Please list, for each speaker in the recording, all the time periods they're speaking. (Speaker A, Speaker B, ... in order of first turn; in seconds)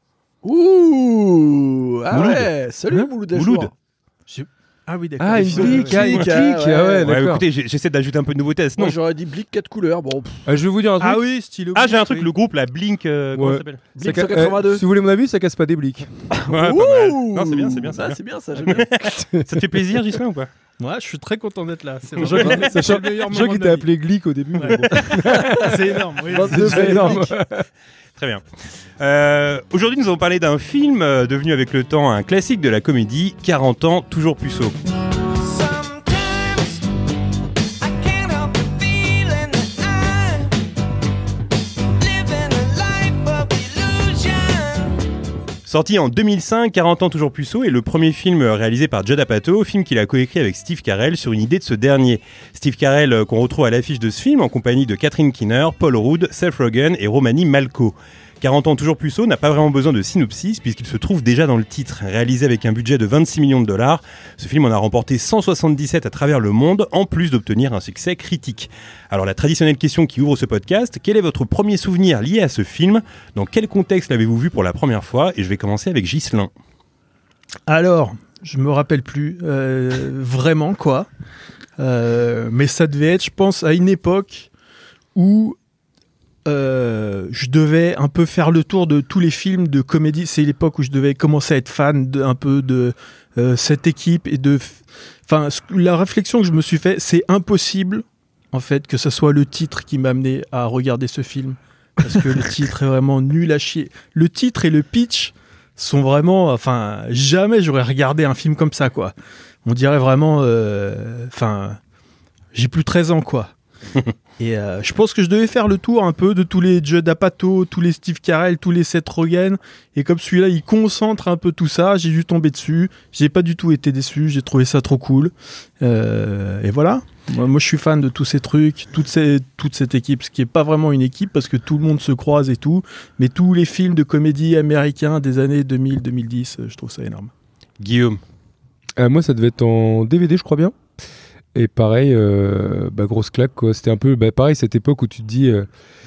Speaker A: 0.4-3.7, 5.4-7.1, 8.8-10.4, 13.9-14.8, 16.3-19.1, 26.3-27.3
Speaker B: 2.1-3.7, 6.0-6.3, 7.0-8.9, 11.7-13.8, 16.5-20.5, 28.2-28.4, 29.0-34.8, 45.6-76.5, 137.8-138.2
Speaker C: 4.3-6.1, 11.0-12.3, 20.8-23.9, 24.5-27.2, 77.7-81.1, 81.8-84.5, 85.1-85.6, 86.5-109.1, 109.6-111.8, 112.5-113.5, 114.4-137.3
Speaker D: 5.2-7.5, 10.4-11.2, 13.3-16.1, 19.1-19.7, 22.2-27.6, 139.0-140.8, 141.5-145.7
Speaker E: 35.4-36.8, 37.8-40.5, 41.9-45.0